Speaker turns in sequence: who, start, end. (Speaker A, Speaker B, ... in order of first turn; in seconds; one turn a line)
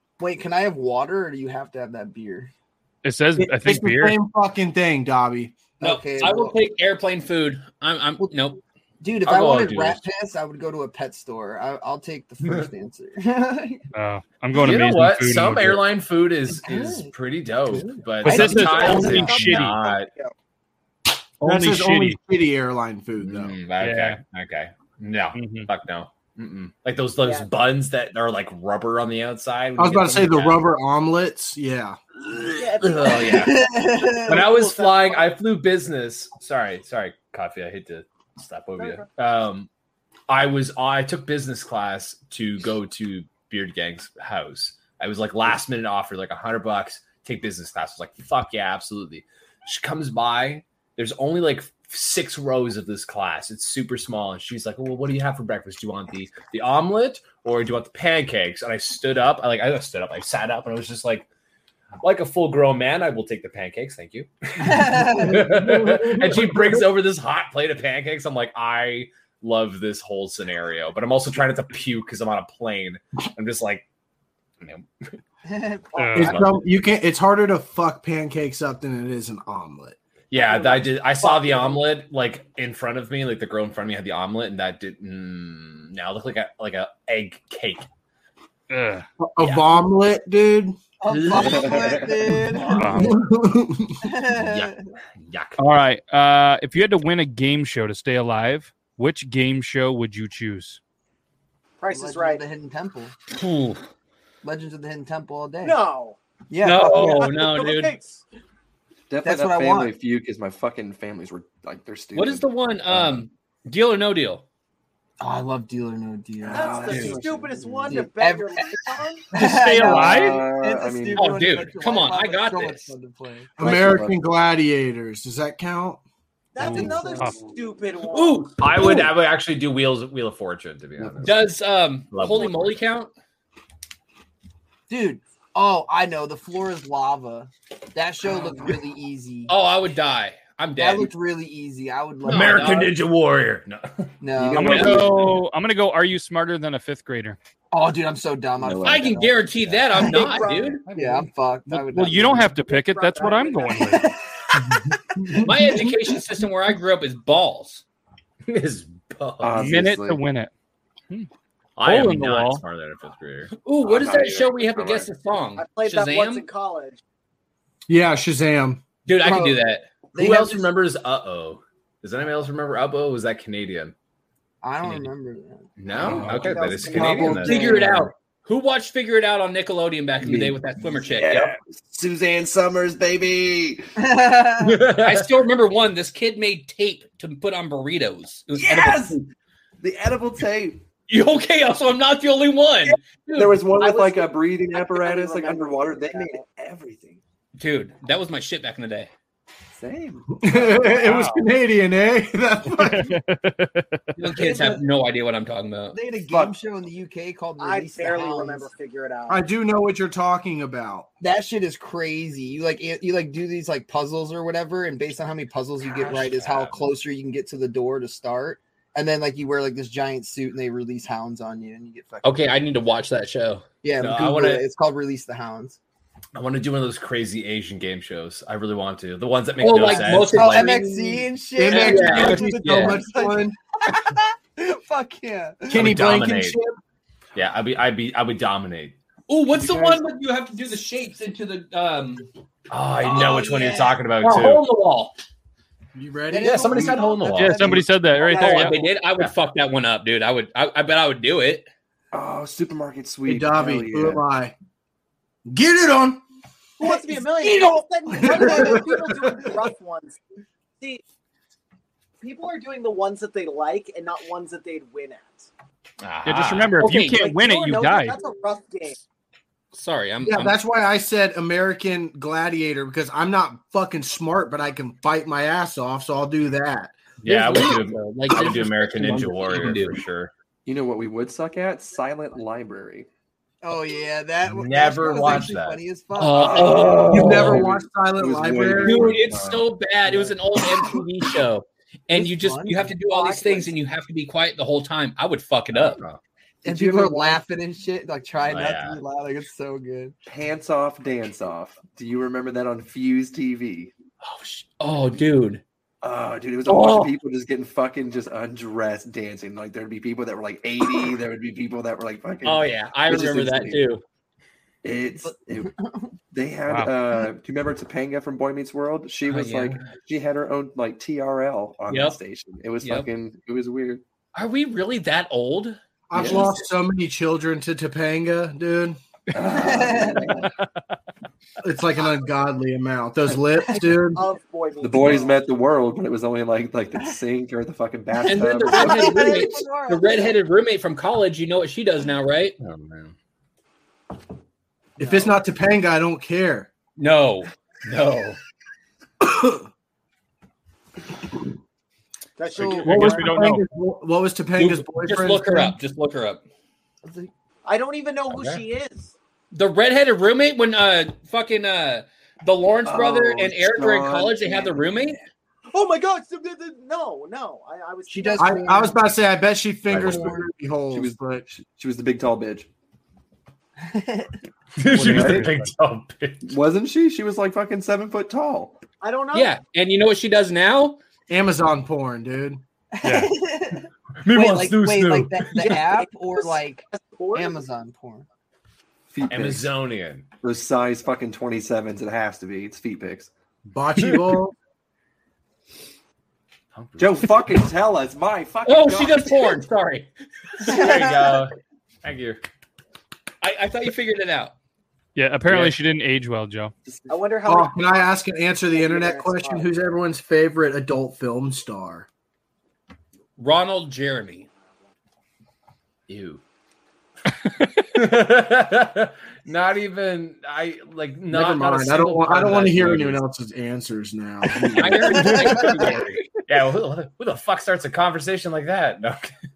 Speaker A: 0.2-2.5
Speaker B: 3.0-4.2
Speaker C: 3.4-5.6
Speaker A: 5.8-6.6
Speaker D: 5.8-8.6
Speaker A: 9.0-13.8
Speaker E: 9.2-10.0
Speaker B: 13.9-15.8
Speaker E: 14.6-20.1
Speaker A: 16.6-17.1
Speaker A: 17.7-19.1
Speaker B: 18.2-19.8
Speaker F: 18.4-20.3
Speaker B: 21.4-22.2
Speaker C: 21.4-23.6
Speaker E: 23.2-30.6
Speaker B: 23.8-24.2
Speaker B: 25.3-25.7
Speaker F: 27.2-27.5
Speaker C: 29.8-32.0
Speaker F: 32.6-35.4
Speaker E: 32.8-33.7
Speaker A: 33.1-34.4
Speaker E: 34.2-39.7
Speaker F: 38.8-39.1
Speaker E: 40.3-61.3
Speaker E: 62.0-73.9
Speaker A: 64.6-65.5
Speaker C: 65.0-66.8
Speaker E: 74.6-74.9
Speaker A: 75.5-76.5
Speaker B: 76.0-76.4
Speaker C: 76.2-80.0
Speaker E: 76.2-76.6
Speaker E: 80.3-87.9
Speaker F: 80.4-81.8
Speaker B: 88.7-89.1
Speaker C: 89.2-90.8
Speaker A: 91.0-93.1
Speaker E: 91.2-92.1
Speaker G: 91.3-92.2
Speaker B: 92.8-93.2
Speaker C: 92.9-94.0
Speaker A: 94.0-94.8
Speaker E: 94.3-95.6
Speaker B: 95.6-100.8
Speaker F: 101.8-102.4
Speaker A: 101.9-103.1
Speaker D: 103.3-103.8
Speaker A: 104.4-105.8
Speaker F: 105.6-106.2
Speaker A: 106.5-107.3
Speaker D: 106.6-108.0
Speaker F: 106.9-108.2
Speaker G: 109.1-113.2
Speaker A: 109.2-109.9
Speaker D: 112.1-114.4
Speaker A: 115.2-118.8
Speaker G: 116.4-118.0
Speaker F: 116.5-119.2
Speaker A: 119.3-123.9
Speaker B: 119.3-120.5
Speaker G: 119.7-121.5
Speaker D: 121.2-122.9
Speaker G: 123.6-124.2
Speaker C: 123.6-126.0
Speaker F: 126.5-128.5
Speaker B: 126.6-127.4
Speaker G: 126.7-127.3
Speaker D: 128.1-129.0
Speaker E: 128.6-131.5
Speaker D: 131.2-133.1
Speaker E: 132.1-132.8
Speaker A: 134.9-139.5
Speaker D: 139.5-141.1
Speaker A: 140.8-142.9
Speaker D: 142.2-142.9
Speaker E: 142.3-144.1
Speaker A: 144.2-145.1
Speaker G: 144.3-145.4
Speaker B: 144.6-147.4
Speaker D: 144.7-145.0
Speaker A: 147.7-149.4
Speaker G: 148.6-149.3
Speaker D: 148.8-150.8
Speaker F: 150.0-150.8
Speaker E: 150.9-151.3
Speaker A: 150.9-152.5
Speaker B: 151.7-154.1
Speaker F: 152.6-154.0
Speaker A: 153.9-154.1
Speaker C: 155.2-155.8
Speaker A: 155.2-155.9
Speaker D: 155.4-157.8
Speaker E: 158.5-159.7
Speaker G: 159.4-160.2
Speaker B: 159.6-160.5
Speaker E: 161.8-163.5
Speaker B: 161.8-162.6
Speaker D: 163.6-166.5
Speaker G: 163.8-165.1
Speaker F: 165.6-167.0
Speaker C: 167.9-168.8
Speaker D: 169.1-170.0
Speaker A: 169.2-170.7
Speaker E: 170.2-173.9
Speaker A: 174.6-176.1
Speaker E: 175.8-177.7
Speaker G: 176.0-178.1
Speaker F: 176.2-177.4
Speaker D: 177.4-181.5
Speaker G: 180.2-183.9
Speaker A: 184.0-184.9
Speaker E: 184.6-185.3
Speaker D: 185.0-189.2
Speaker G: 188.5-189.3
Speaker G: 189.8-190.8
Speaker D: 191.1-193.6
Speaker G: 193.3-197.2
Speaker F: 193.7-196.4
Speaker D: 197.6-199.1
Speaker G: 199.8-201.2
Speaker C: 200.4-203.2
Speaker B: 201.1-201.4
Speaker B: 202.7-204.2
Speaker D: 204.2-206.0
Speaker A: 204.4-204.8
Speaker A: 205.9-208.7
Speaker G: 206.3-206.6
Speaker F: 207.6-209.4
Speaker C: 209.3-211.1
Speaker A: 211.2-222.4
Speaker E: 215.8-216.9
Speaker D: 222.2-223.7
Speaker A: 223.8-225.8
Speaker E: 224.0-224.6
Speaker E: 226.3-230.9
Speaker D: 229.6-233.0
Speaker A: 229.8-236.0
Speaker C: 231.6-233.6
Speaker E: 235.7-236.6
Speaker C: 235.7-236.8
Speaker E: 237.3-238.9
Speaker D: 239.3-242.3
Speaker C: 239.6-240.0
Speaker E: 242.7-244.6
Speaker D: 243.0-245.2
Speaker C: 245.9-246.9
Speaker A: 246.3-247.8
Speaker E: 246.4-247.8
Speaker B: 247.3-248.8
Speaker F: 248.2-248.9
Speaker D: 248.3-251.7
Speaker G: 252.1-254.2
Speaker C: 253.3-254.5
Speaker C: 255.5-256.2
Speaker F: 256.8-260.2
Speaker G: 257.4-258.7
Speaker A: 258.3-258.8
Speaker C: 258.4-259.4
Speaker F: 262.2-265.5
Speaker D: 266.0-267.2
Speaker B: 266.2-268.2
Speaker F: 266.9-269.0
Speaker D: 269.7-270.6
Speaker C: 270.2-277.0
Speaker D: 277.2-280.0
Speaker E: 277.2-280.3
Speaker G: 280.7-283.1
Speaker A: 283.6-287.0
Speaker E: 284.5-285.8
Speaker D: 286.1-287.7
Speaker G: 286.2-290.9
Speaker C: 287.1-289.3
Speaker D: 288.8-296.0
Speaker A: 292.1-293.0
Speaker F: 293.1-293.7
Speaker E: 295.7-296.2
Speaker G: 296.6-297.4
Speaker A: 296.6-300.1
Speaker E: 298.5-299.0
Speaker G: 300.3-303.9
Speaker D: 304.2-305.6
Speaker G: 306.0-313.9
Speaker D: 306.6-307.1
Speaker D: 312.4-314.0
Speaker G: 314.8-315.7
Speaker A: 315.2-316.1
Speaker G: 316.3-324.0
Speaker B: 316.7-316.9
Speaker D: 319.3-319.9
Speaker D: 321.9-322.2
Speaker D: 322.8-323.1
Speaker D: 324.3-326.4
Speaker C: 326.1-329.0
Speaker G: 326.1-326.5
Speaker G: 329.3-330.5
Speaker A: 329.4-330.3
Speaker C: 331.6-334.2
Speaker F: 334.1-335.4
Speaker G: 334.8-339.5
Speaker D: 338.2-342.6
Speaker A: 338.6-340.4
Speaker E: 342.6-343.1
Speaker C: 345.0-346.7
Speaker A: 345.0-345.4
Speaker D: 347.0-348.4
Speaker C: 349.2-349.7
Speaker F: 352.4-353.2
Speaker A: 352.6-353.2
Speaker C: 352.6-355.8
Speaker B: 352.8-353.7
Speaker D: 354.6-356.5
Speaker F: 357.6-359.1
Speaker E: 358.3-358.6
Speaker D: 359.5-365.2
Speaker G: 362.9-365.2
Speaker F: 365.7-369.0
Speaker C: 368.1-371.5
Speaker A: 368.2-368.9
Speaker E: 369.9-370.4
Speaker G: 369.9-372.7
Speaker A: 373.8-374.3
Speaker E: 374.8-376.6
Speaker B: 374.9-375.6
Speaker G: 374.9-375.5
Speaker G: 376.4-378.8
Speaker F: 379.0-379.5
Speaker D: 379.3-381.0
Speaker C: 381.3-382.6
Speaker A: 383.0-388.3
Speaker B: 383.0-383.3
Speaker E: 384.2-385.9
Speaker F: 385.8-387.6
Speaker G: 389.1-389.7
Speaker E: 389.3-390.3
Speaker G: 390.4-393.3
Speaker C: 393.7-394.6
Speaker E: 396.7-397.6
Speaker G: 397.0-399.6
Speaker D: 398.6-400.1
Speaker E: 400.6-401.5
Speaker A: 400.6-401.5
Speaker E: 402.0-402.4
Speaker D: 403.4-404.5
Speaker B: 405.2-406.7
Speaker G: 406.9-407.2
Speaker F: 407.1-408.1
Speaker C: 407.4-412.1
Speaker F: 408.7-409.7
Speaker D: 413.4-414.5
Speaker E: 416.1-416.4
Speaker E: 417.9-423.2
Speaker C: 421.3-425.9
Speaker D: 424.7-426.2
Speaker A: 425.4-425.9
Speaker E: 426.5-429.3